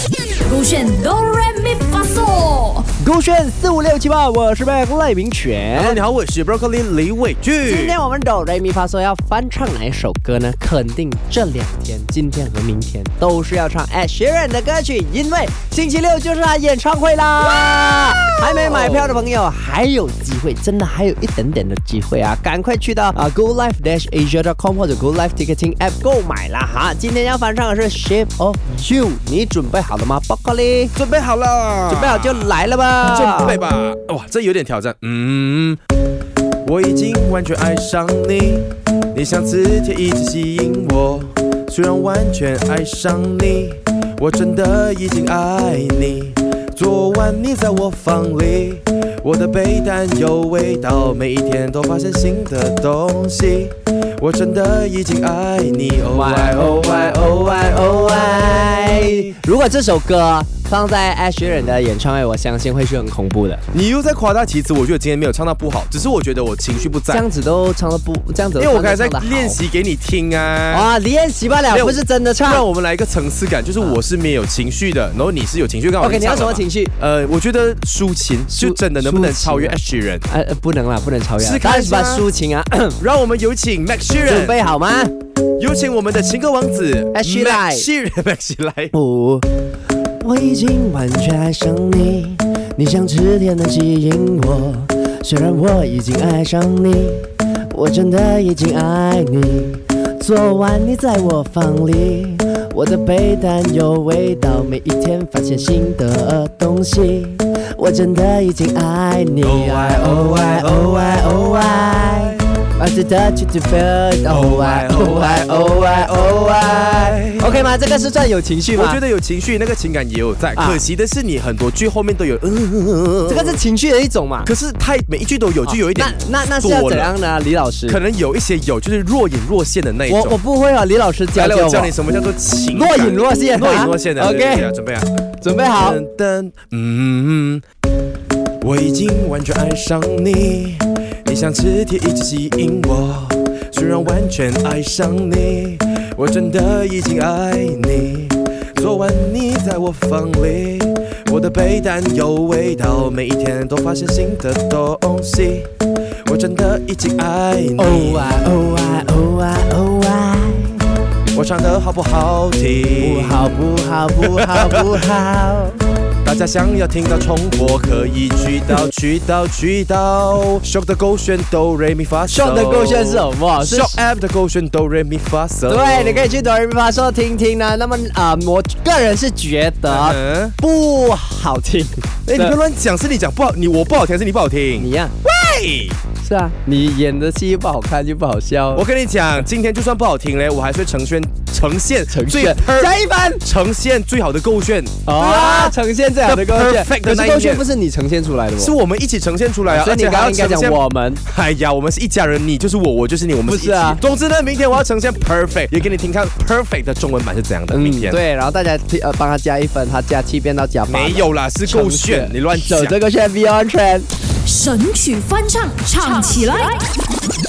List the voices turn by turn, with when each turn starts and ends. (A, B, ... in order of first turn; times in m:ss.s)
0:00.4-0:02.9 A
0:03.0-0:06.0 B
0:05.7-0:08.0 C
0:07.6-0:30.9 B
0:18.2-0:19.3 C
0:30.9-0:35.8 C
0:31.9-0:33.6 B
0:36.6-0:57.3 C
0:56.1-1:03.6 B
0:58.8-0:59.3 C
1:03.7-1:07.2 C
1:07.1-1:09.6 B
1:08.6-1:10.9 C
1:10.7-1:12.6 B
1:11.7-1:20.3 C
1:16.0-1:16.9 B
1:18.5-1:19.8 B
1:20.3-1:23.0 B
1:21.4-1:22.3 C
1:23.0-1:24.6 C
1:24.2-1:25.1 B
1:25.6-1:28.9 C
1:27.1-1:27.9 B
1:28.9-1:29.4 B
1:30.2-1:59.0 B
1:49.4-1:52.4 C
1:54.2-1:57.7 C
1:58.7-2:03.6 C
2:00.6-2:00.8 B
2:03.3-2:04.5 B
2:04.4-2:07.1 C
2:05.6-2:08.0 B
2:07.9-2:10.4 C
2:10.1-2:12.0 B
2:11.3-2:15.1 C
2:12.7-2:14.7 B
2:15.4-2:16.0 B
2:15.7-2:17.6 C
2:18.6-2:35.7 C
2:36.2-2:39.1 C
2:37.8-2:40.8 B
2:41.3-2:43.4 C
2:43.0-2:45.8 B
2:44.2-2:45.0 C
2:46.2-2:56.4 C
2:52.3-2:54.0 B
2:55.7-3:02.6 B
2:59.8-3:00.5 C
3:02.3-3:06.0 C
3:04.8-3:05.1 B
3:06.2-3:08.8 B
3:08.7-3:17.6 C
3:12.1-3:13.4 B
3:15.0-3:18.7 B
3:18.6-3:28.2 C
3:19.6-3:21.2 B
3:23.4-3:24.0 B
3:27.7-3:34.1 B
3:30.9-3:33.0 C
3:34.4-3:36.8 A